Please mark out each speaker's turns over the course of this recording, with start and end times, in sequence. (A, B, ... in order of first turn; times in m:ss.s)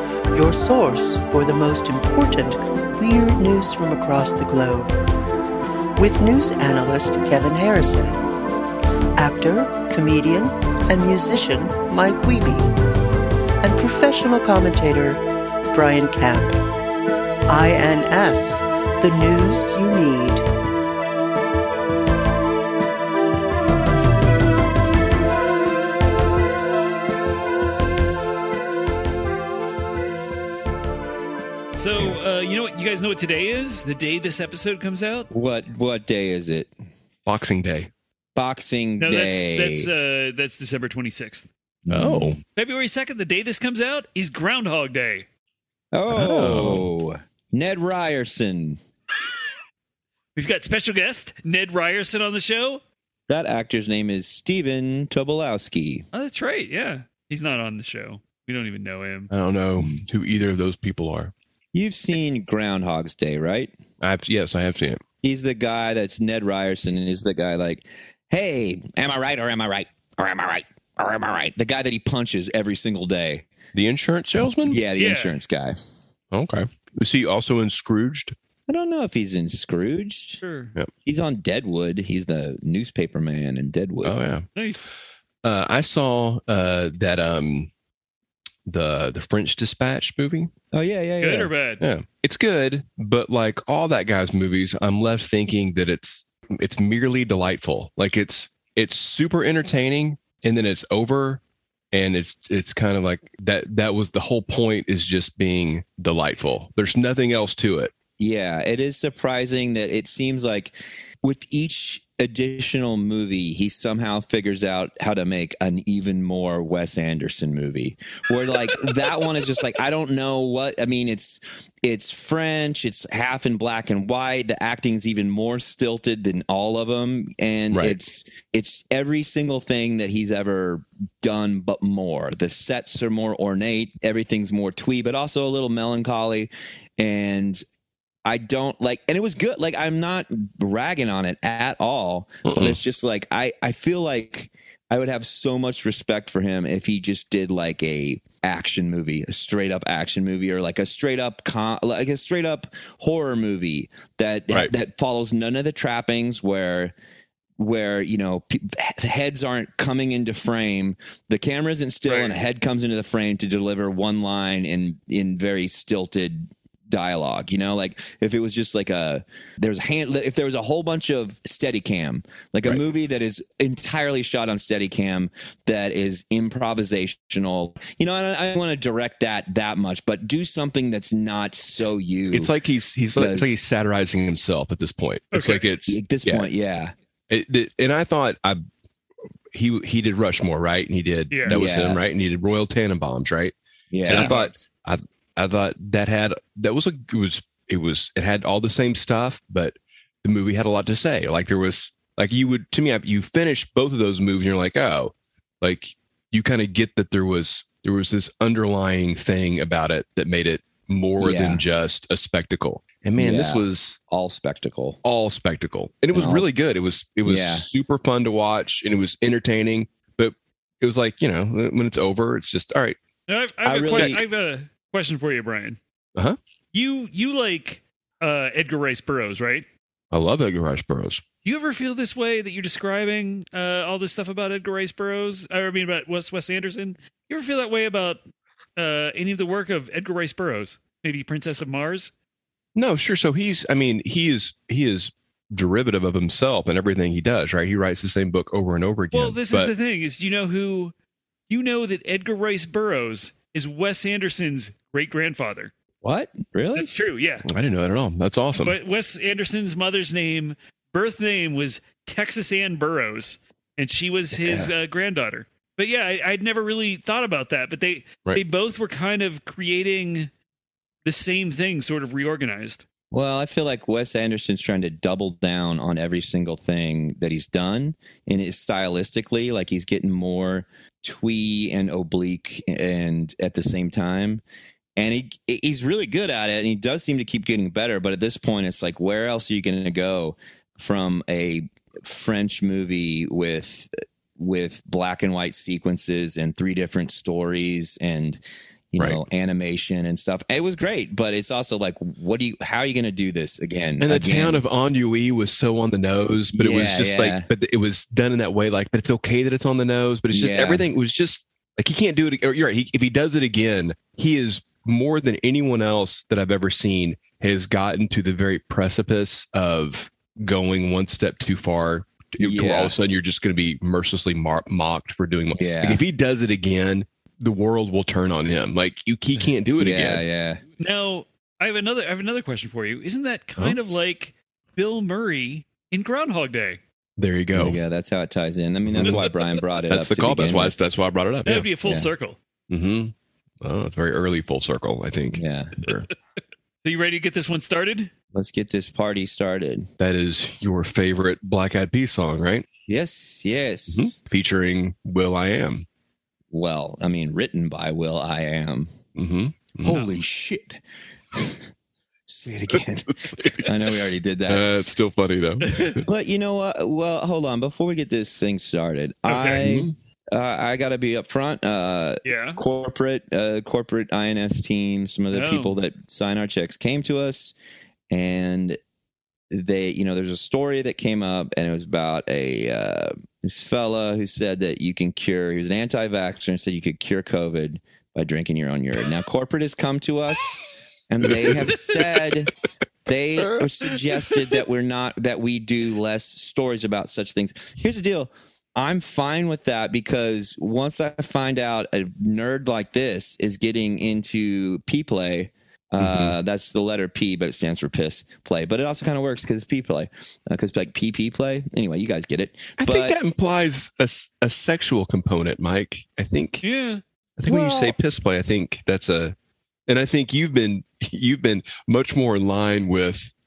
0:00.3-0:04.9 A
0:06.0-0:08.2 A
0:09.2-0:12.7 A
0:13.6-0:16.6 A
0:17.5-0:20.4 A
0:31.8-0:35.3 B
0:35.3-0:36.7 C
0:37.2-0:37.9 D
0:38.4-0:39.9 C
0:39.0-0:41.4 B
0:41.8-0:42.4 C
0:41.9-0:42.4 D
0:42.5-0:45.2 B
0:45.9-0:48.8 C
0:46.1-0:46.9 D
0:50.4-0:52.8 B
0:53.3-0:56.0 C
0:56.1-0:59.3 B
0:59.3-1:01.3 D
1:01.7-1:03.7 C
1:04.0-1:05.0 D
1:05.2-1:13.5 C
1:13.7-1:14.8 D
1:14.7-1:15.8 C
1:15.0-1:15.4 B
1:16.3-1:18.4 D
1:18.7-1:20.4 C
1:20.4-1:20.7 B
1:21.0-1:24.2 C
1:24.0-1:24.5 D
1:24.6-1:24.9 B
1:25.4-1:27.7 D
1:28.6-1:30.5 D
1:30.7-1:31.5 C
1:31.2-1:31.8 B
1:31.8-1:41.4 D
1:41.9-1:47.9 D
1:48.2-2:17.6 C
2:07.7-2:08.0 D
2:18.2-2:36.9 C
2:22.4-2:22.8 D
2:37.6-3:02.5 C
3:02.3-3:06.5 D
3:03.2-3:03.6 C
3:05.3-3:05.6 B
3:05.8-3:06.9 C
3:07.3-3:08.6 D
3:09.5-3:13.5 D
3:11.3-3:11.6 B
3:11.5-3:12.0 C
3:13.9-3:14.5 C
3:14.0-3:14.4 B
3:14.0-3:34.0 D
3:31.2-3:31.6 C
3:33.2-3:35.0 C
3:35.0-3:43.0 D
3:36.1-3:36.5 C
3:37.2-3:37.7 C
3:43.3-3:45.8 B
3:43.6-3:44.2 C
3:46.7-3:49.6 B
3:50.1-3:51.2 D
3:51.4-3:58.2 B
3:58.8-4:02.1 B
4:02.7-4:09.7 D
4:09.1-4:10.9 B
4:11.5-4:15.7 B
4:16.0-4:16.9 C
4:16.8-4:17.5 B
4:17.4-4:18.8 D
4:18.6-4:30.3 B
4:24.4-4:24.7 C
4:31.0-4:32.8 B
4:33.1-4:44.4 C
4:45.0-4:58.4 C
4:58.9-5:04.6 C
4:59.0-4:59.2 D
5:04.0-5:30.2 D
5:06.5-5:07.5 C
5:10.3-5:10.8 C
5:22.4-5:22.9 C
5:25.5-5:26.0 C
5:29.8-5:30.6 C
5:30.8-5:36.8 B
5:37.2-5:37.8 D
5:37.5-5:40.7 C
5:38.9-5:39.2 D
5:39.9-5:41.7 D
5:41.4-5:42.4 B
5:41.8-5:42.1 C
5:42.7-5:46.1 D
5:45.3-5:45.8 C
5:46.8-5:48.1 B
5:48.3-5:49.9 C
5:50.0-5:52.7 D
5:52.9-5:54.1 C
5:53.9-5:55.8 D
5:56.5-5:58.9 C
5:59.1-6:00.0 D
5:59.8-6:00.8 C
5:59.9-6:00.1 B
6:01.3-6:01.6 C
6:02.3-6:04.8 C
6:02.7-6:03.9 D
6:04.5-6:06.0 D
6:05.6-6:06.0 B
6:06.0-6:17.5 C
6:09.2-6:09.6 B
6:09.6-6:09.9 D
6:12.2-6:12.6 B
6:15.3-6:15.8 B
6:18.1-6:18.8 C
6:19.5-6:32.5 C
6:31.2-6:32.2 D
6:33.0-6:53.2 C
6:33.5-6:34.5 D
6:46.0-6:46.3 D
6:52.8-6:56.6 D
6:56.6-6:57.0 B
6:57.4-6:59.3 D
6:57.4-6:58.0 C
6:59.9-7:03.3 D